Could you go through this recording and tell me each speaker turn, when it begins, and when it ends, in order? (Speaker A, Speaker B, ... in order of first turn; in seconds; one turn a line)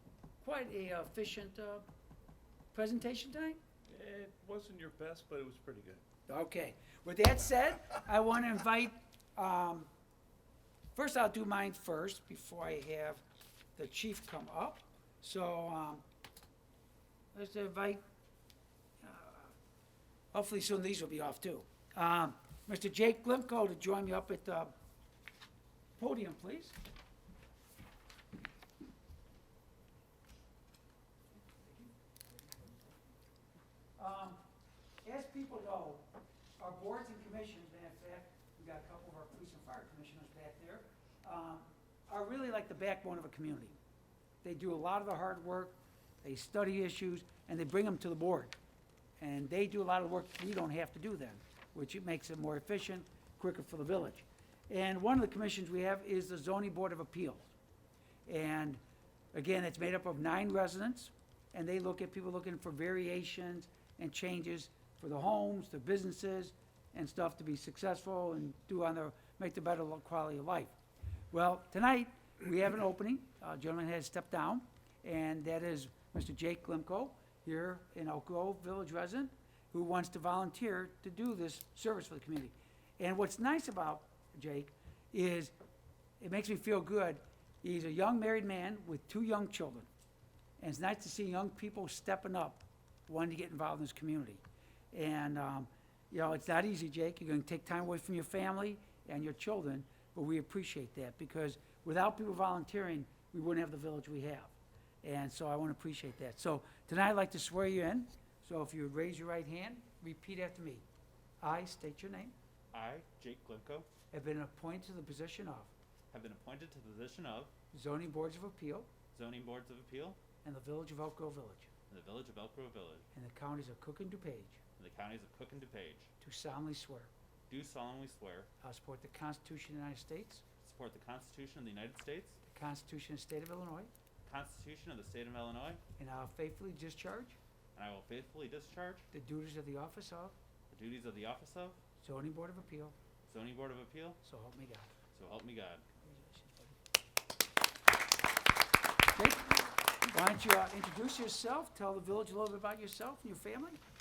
Speaker A: 0.4-1.9
Speaker A: 2.7-3.6
Speaker B: 3.9-6.0
Speaker A: 6.3-9.9
Speaker A: 10.9-13.2
Speaker A: 13.8-16.0
Speaker A: 17.3-18.0
Speaker A: 19.0-19.5
Speaker A: 20.3-24.7
Speaker A: 26.0-26.8
Speaker A: 31.4-31.9
Speaker A: 34.0-34.4
Speaker A: 35.0-36.1
Speaker A: 36.6-43.8
Speaker A: 44.4-48.5
Speaker A: 49.2-57.5
Speaker A: 58.2-58.8
Speaker A: 59.3-70.7
Speaker A: 71.3-85.5
Speaker A: 86.2-89.9
Speaker A: 90.6-110.8
Speaker A: 111.4-112.3
Speaker C: 112.7-113.9
Speaker A: 114.1-115.7
Speaker C: 116.1-117.5
Speaker A: 117.7-118.9
Speaker C: 119.1-120.2
Speaker A: 120.4-121.7
Speaker C: 121.9-123.0
Speaker A: 123.1-124.6
Speaker C: 124.8-126.1
Speaker A: 126.2-127.1
Speaker C: 127.5-128.5
Speaker A: 128.6-130.4
Speaker C: 130.6-132.4
Speaker A: 132.5-133.9
Speaker C: 134.2-135.8
Speaker A: 136.0-137.4
Speaker C: 137.7-139.1
Speaker A: 139.1-140.3
Speaker C: 140.7-141.8
Speaker A: 142.0-142.9
Speaker C: 143.3-144.2
Speaker A: 144.2-144.9
Speaker C: 145.1-145.8
Speaker A: 146.0-146.7
Speaker A: 149.1-153.8